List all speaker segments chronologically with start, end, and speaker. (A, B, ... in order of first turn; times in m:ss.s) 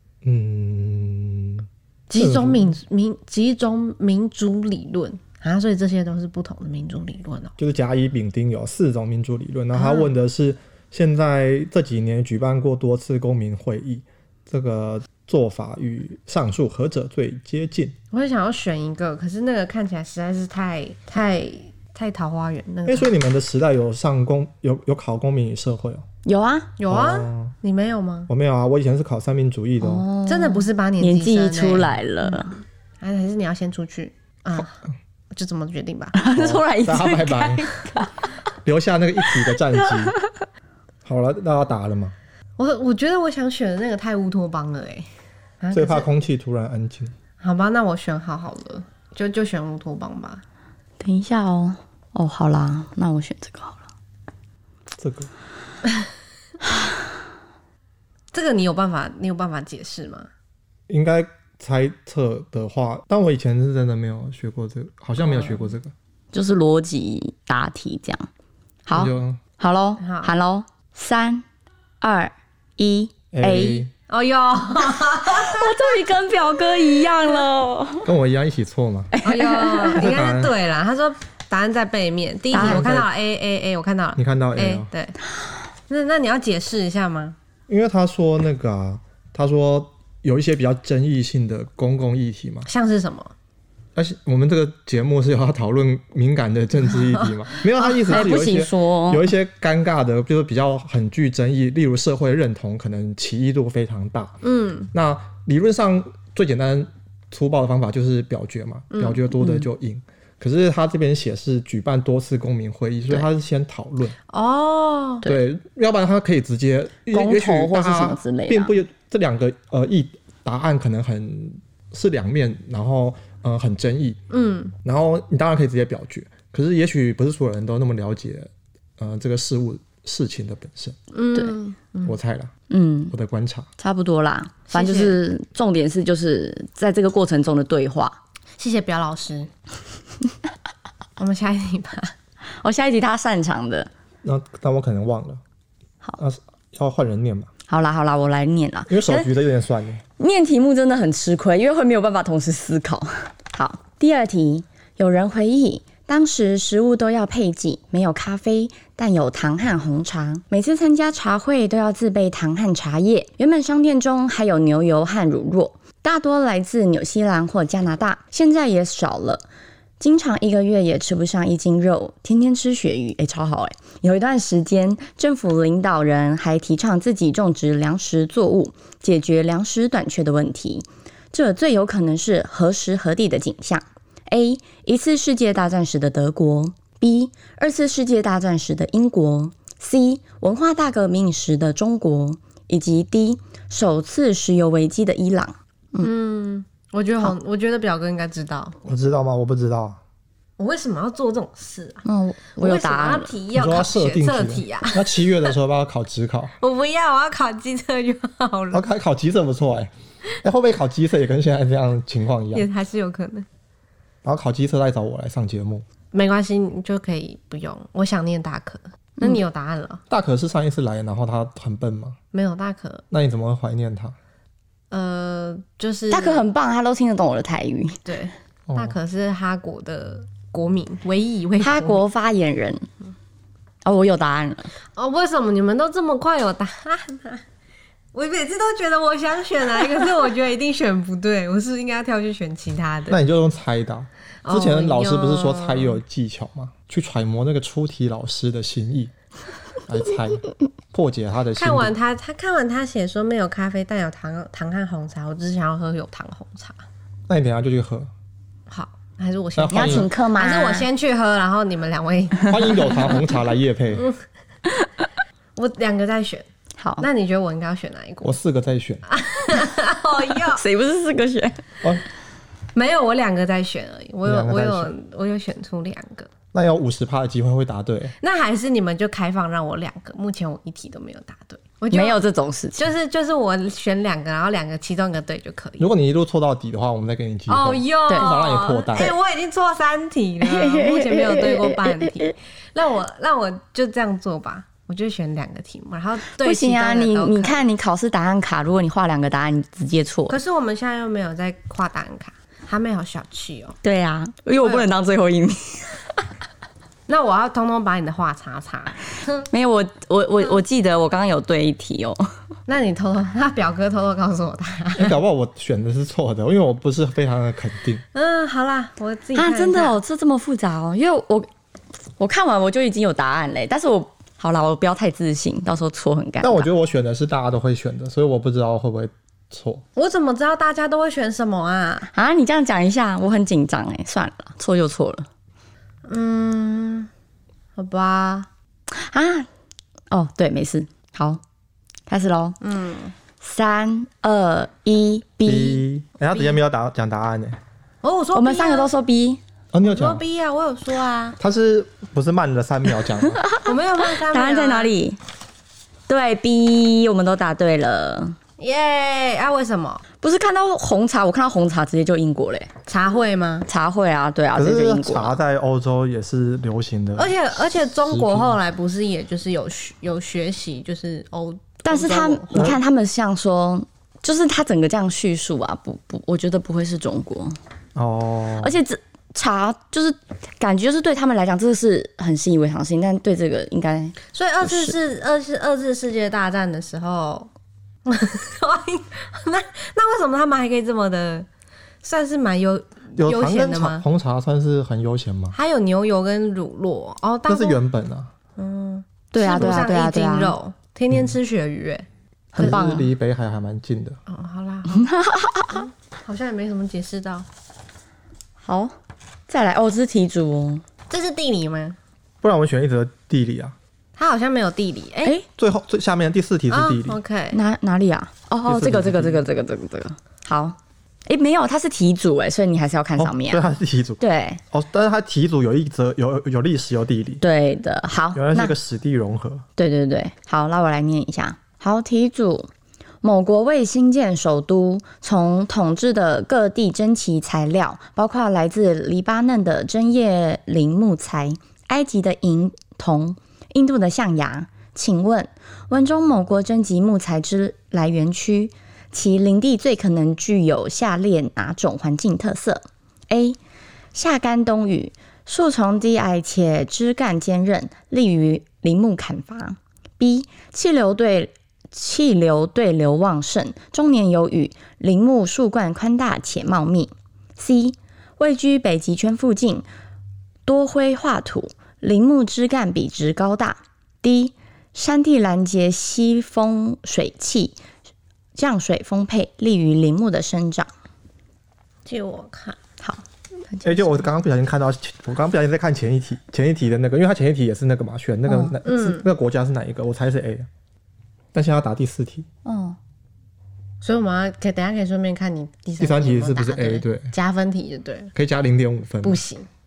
0:00.2-0:02.8 A
0:02.1-0:07.6 B
0:07.6-0:18.0 A
0:09.7-0:10.1 B
0:18.1-0:23.1 B
0:22.9-0:26.0 A
0:26.2-0:26.7 C
0:26.8-0:28.3 B
0:26.9-0:27.6 A
0:28.3-0:30.1 A
0:29.8-0:32.6 C
0:30.3-0:32.4 B
0:33.0-0:34.8 B
0:35.3-0:36.2 B
0:36.2-0:38.3 C
0:36.3-0:37.7 A
0:38.6-0:40.2 A
0:39.5-0:40.4 C
0:41.0-0:42.1 A
0:42.6-0:45.1 B
0:45.6-0:46.1 B
0:45.7-0:47.1 A
0:47.4-0:50.4 B
0:51.0-0:53.8 C
0:55.0-0:55.3 A
0:58.3-1:00.3 B
1:00.9-1:05.9 A
1:05.2-1:05.7 B
1:06.3-1:08.3 C
1:08.9-1:11.4 C
1:08.9-1:09.4 A
1:10.0-1:10.3 B
1:12.0-1:13.9 C
1:13.3-1:13.9 A
1:14.1-1:15.9 B
1:15.3-1:18.1 C
1:18.0-1:19.2 A
1:19.1-1:20.0 C
1:19.2-1:25.2 B
1:19.9-1:20.5 A
1:22.5-1:22.9 C
1:22.5-1:23.1 A
1:24.2-1:24.9 A
1:25.9-1:27.4 B
1:27.7-1:32.7 A
1:32.7-1:33.3 B
1:34.0-1:44.4 A
1:37.8-1:38.2 B
1:38.0-1:39.3 C
1:44.4-1:44.9 B
1:44.9-1:54.2 A
1:48.9-1:49.2 B
1:49.4-1:49.7 C
1:54.3-1:55.3 B
1:55.2-2:04.2 A
1:57.1-1:58.8 C
2:04.3-2:04.7 B
2:04.8-2:11.0 A
2:11.1-2:12.2 B
2:12.0-2:12.5 A
2:12.7-2:13.1 C
2:13.1-2:13.7 A
2:13.8-2:18.2 C
2:14.7-2:15.2 B
2:18.6-2:19.5 B
2:21.2-2:22.1 B
2:22.6-2:23.9 C
2:24.2-2:25.4 A
2:26.2-2:27.5 A
2:27.7-2:29.3 C
2:28.9-2:30.0 A
2:30.2-2:49.4 C
2:50.0-3:16.1 C
3:16.0-3:18.8 B
3:18.8-3:20.0 A
3:20.6-3:22.0 B
3:22.0-3:23.3 C
3:22.6-3:25.5 B
3:23.5-3:26.5 A
3:26.6-3:28.8 B
3:28.7-3:29.9 A
3:30.4-3:32.7 A
3:32.5-3:33.5 B
3:34.2-3:35.8 A
3:36.1-3:40.0 B
3:40.1-3:42.2 A
3:42.3-3:43.0 B
3:43.1-3:44.2 A
3:44.9-3:46.4 B
3:46.1-3:48.0 C
3:48.1-3:52.0 B
3:48.7-3:48.9 A
3:51.6-3:52.9 C
3:53.8-3:54.7 C
3:55.0-3:57.4 B
3:58.1-4:03.2 B
4:03.1-4:09.1 A
4:04.4-4:06.0 B
4:09.9-4:11.9 A
4:11.6-4:16.8 B
4:17.3-4:18.1 A
4:18.7-4:23.1 B
4:19.6-4:20.1 A
4:19.7-4:20.9 C
4:22.5-4:24.1 A
4:25.6-4:26.5 B
4:26.8-4:27.1 C
4:27.0-4:28.4 B
4:28.2-4:29.0 A
4:29.1-4:30.6 B
4:30.5-4:31.6 C
4:32.8-4:36.3 B
4:34.2-4:34.9 A
4:36.5-4:38.2 A
4:38.2-4:42.2 B
4:41.9-4:42.8 C
4:42.8-4:45.9 B
4:45.8-4:49.2 A
4:47.5-4:57.6 B
4:50.4-4:52.3 C
4:56.4-5:00.4 C
5:00.3-5:03.8 B
5:03.8-5:06.1 C
5:04.6-5:04.9 B
5:07.1-5:09.5 B
5:09.5-5:12.3 C
5:12.7-5:15.2 B
5:15.0-5:18.0 A
5:18.1-5:20.0 B
5:19.4-5:21.5 C
5:22.2-5:26.7 C
5:26.4-5:29.8 A
5:30.0-5:32.1 B
5:32.1-5:35.3 C
5:36.1-5:37.1 B
5:37.8-5:38.5 B
5:38.9-5:39.5 C
5:40.1-5:41.4 C
5:42.1-5:42.6 C
5:42.6-5:43.1 B
5:43.4-5:45.8 C
5:45.4-5:47.6 A
5:46.3-5:46.6 B
5:48.0-5:48.9 B
5:48.4-5:49.4 C
5:49.7-5:50.2 A
5:49.8-5:51.4 B
5:51.4-5:53.4 A
5:53.4-5:55.2 C
5:53.6-5:54.9 B
5:56.1-5:58.4 C
5:58.6-6:00.0 B
6:00.2-6:02.7 C
6:02.9-6:03.7 B
6:03.7-6:05.4 C
6:04.6-6:07.3 A
6:07.2-6:12.8 B
6:08.0-6:08.6 A
6:11.9-6:17.6 C
6:12.5-6:12.8 A
6:18.0-6:18.8 A
6:18.6-6:24.9 C
6:24.3-6:27.5 B
6:28.1-6:31.5 B
6:32.0-6:34.0 B
6:33.2-6:35.6 A
6:35.5-6:37.8 B
6:37.5-6:38.3 A
6:38.6-6:42.1 B
6:39.3-6:40.6 C
6:42.5-6:43.1 C
6:42.6-6:44.2 A
6:44.3-6:45.1 B
6:44.9-6:45.8 C
6:45.7-6:47.5 B
6:48.6-6:48.9 C
6:49.5-6:50.8 C
6:51.1-6:52.0 B
6:52.4-6:53.8 A
6:54.2-6:55.4 B
6:55.6-6:57.2 A
6:56.7-6:57.6 B
6:57.5-7:03.6 C
6:58.6-6:59.4 A
7:03.2-7:07.4 A
7:04.2-7:04.6 C
7:07.4-7:08.7 C
7:08.3-7:09.6 A
7:09.8-7:12.7 C
7:13.2-7:33.6 C
7:34.1-7:49.9 C
7:50.7-7:57.8 C
7:58.6-8:00.9 C
8:02.0-8:02.8 B
8:03.0-8:04.2 C
8:03.8-8:10.7 A
8:08.5-8:08.8 C
8:08.8-8:09.2 B
8:11.5-8:12.5 A
8:12.6-8:13.0 C
8:14.0-8:18.3 B
8:16.0-8:17.3 A
8:18.3-8:19.4 A
8:19.2-8:19.7 B